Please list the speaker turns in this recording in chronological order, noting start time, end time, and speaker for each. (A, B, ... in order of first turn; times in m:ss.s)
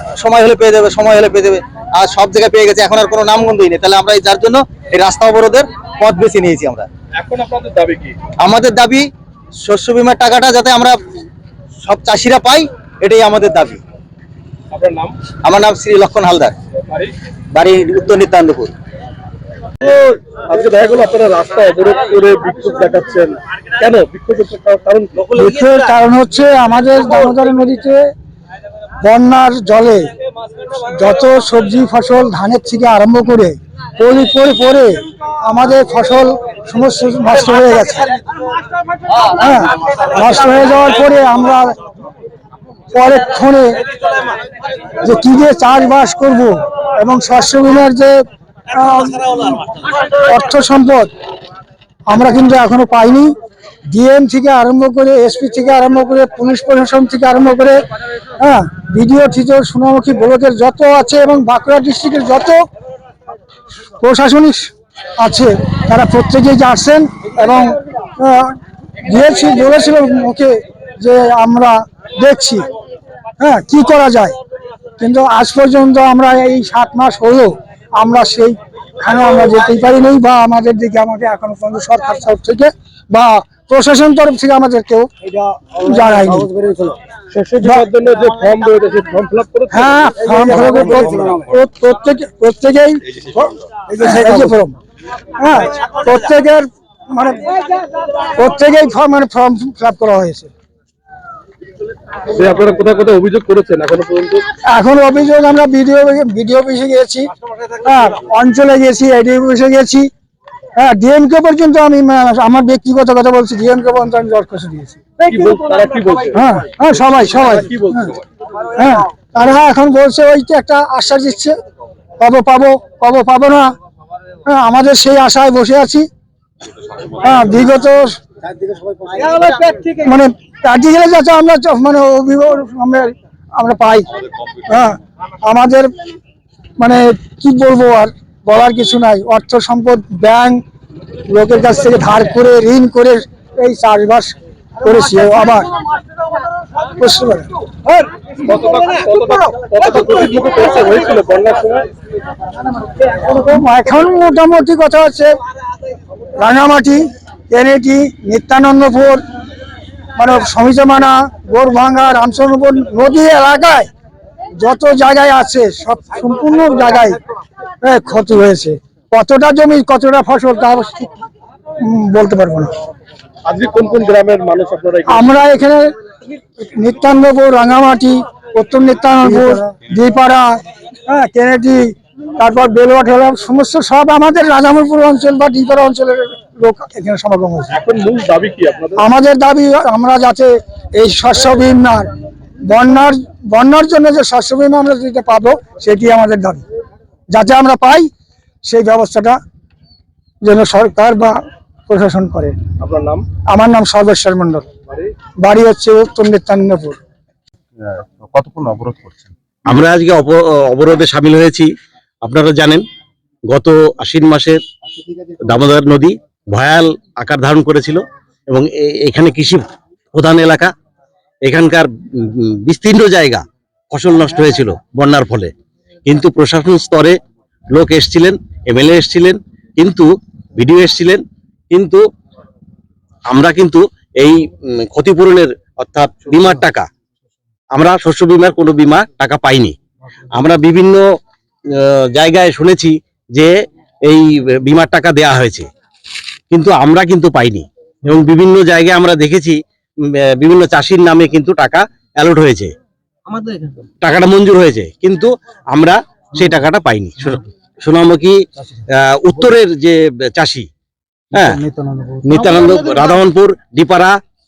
0:00.2-0:06.9 A
0:07.2-0:08.2 B
0:08.4-0:09.1 A
0:09.6-0:11.0 A
0:11.8-0:13.8 A
0:14.7-0:15.2 B
0:15.4-0:16.6 A
0:16.9-0:17.1 B
0:17.5-0:18.7 A
0:19.8-0:25.1 B
0:25.3-0:28.0 C
0:29.0-0:30.1 C
0:30.8-0:38.1 C
0:39.3-0:41.7 C
0:42.9-0:43.8 C
0:45.0-0:48.2 C
0:48.7-0:51.1 C
0:52.1-0:53.3 C
0:53.9-0:57.8 C
0:58.4-1:02.6 C
1:04.0-1:12.7 C
1:13.4-1:14.4 C
1:15.0-1:26.5 C
1:27.3-1:30.0 B
1:29.7-1:34.8 C
1:30.5-1:31.3 B
1:35.4-1:37.6 C
1:38.4-1:40.5 C
1:42.3-1:44.4 B
1:44.7-1:47.3 C
1:47.8-1:50.1 C
1:50.8-1:55.0 C
1:55.3-1:56.4 B
1:56.3-1:58.1 C
1:57.4-1:58.1 B
1:58.8-2:01.6 C
2:02.2-2:03.7 C
2:04.5-2:06.1 C
2:07.2-2:08.2 C
2:09.4-2:14.1 C
2:14.7-2:15.9 C
2:16.8-2:20.6 C
2:21.3-2:25.7 C
2:27.0-2:27.5 C
2:28.5-2:31.9 B
2:33.1-2:35.3 C
2:36.4-2:39.2 C
2:40.2-2:43.9 C
2:44.6-2:47.2 C
2:47.8-2:51.1 C
2:51.8-2:52.7 C
2:53.4-2:55.3 B
2:55.1-2:55.9 C
2:56.6-3:00.6 C
3:01.1-3:07.8 C
3:07.7-3:09.1 B
3:09.0-3:12.1 C
3:12.6-3:16.6 C
3:17.3-3:18.1 C
3:18.6-3:19.4 C
3:20.4-3:21.4 C
3:21.9-3:22.6 C
3:22.8-3:23.2 B
3:23.5-3:24.7 C
3:25.4-3:27.0 C
3:27.8-3:31.7 D
3:32.2-3:32.8 D
3:33.5-3:34.6 D
3:35.5-3:40.7 D
3:41.4-3:45.5 D
3:46.1-3:47.2 D
3:47.7-3:52.0 D
3:53.3-3:56.9 D
3:57.8-3:59.8 D
4:00.3-4:01.0 D
4:01.8-4:03.5 D
4:04.1-4:05.7 D
4:06.5-4:09.6 D
4:10.3-4:12.7 D
4:14.0-4:18.4 D
4:19.0-4:20.7 D
4:21.3-4:21.6 D
4:22.2-4:24.2 D